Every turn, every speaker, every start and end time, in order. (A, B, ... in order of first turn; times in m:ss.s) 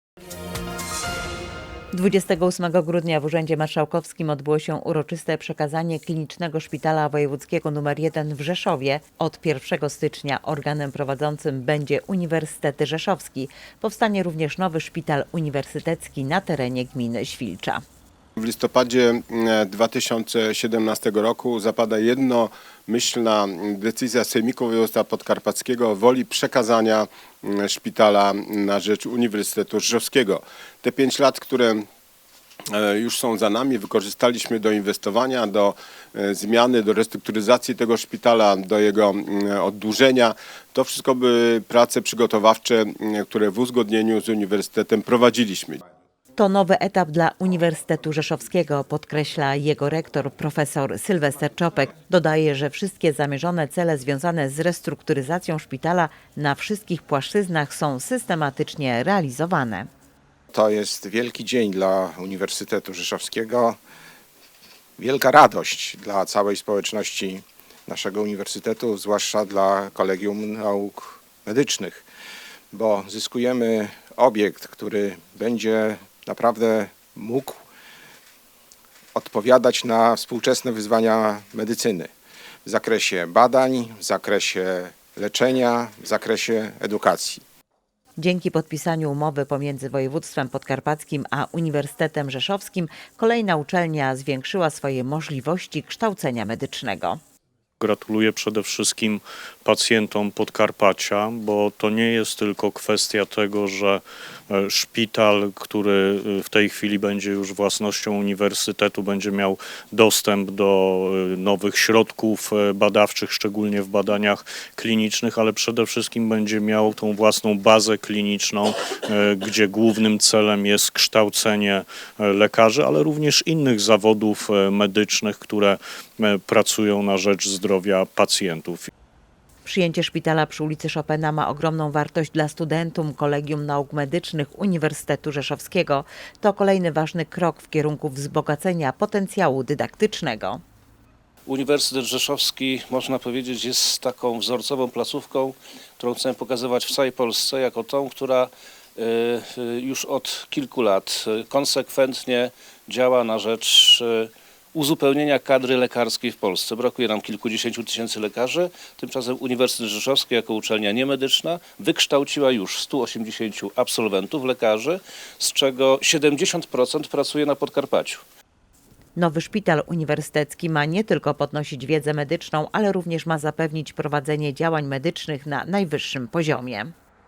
0:01.9-0:17.8 A
0:18.4-0:31.8 B
0:32.7-0:45.8 B
0:46.4-0:59.9 A
1:00.5-1:03.7 C
1:05.0-1:12.0 C
1:12.7-1:17.5 C
1:19.2-1:22.1 C
1:22.6-1:27.4 C
1:28.2-1:37.2 A
1:37.8-2:08.9 D
2:09.6-2:20.6 A
2:21.5-2:48.2 E
2:49.2-2:56.9 A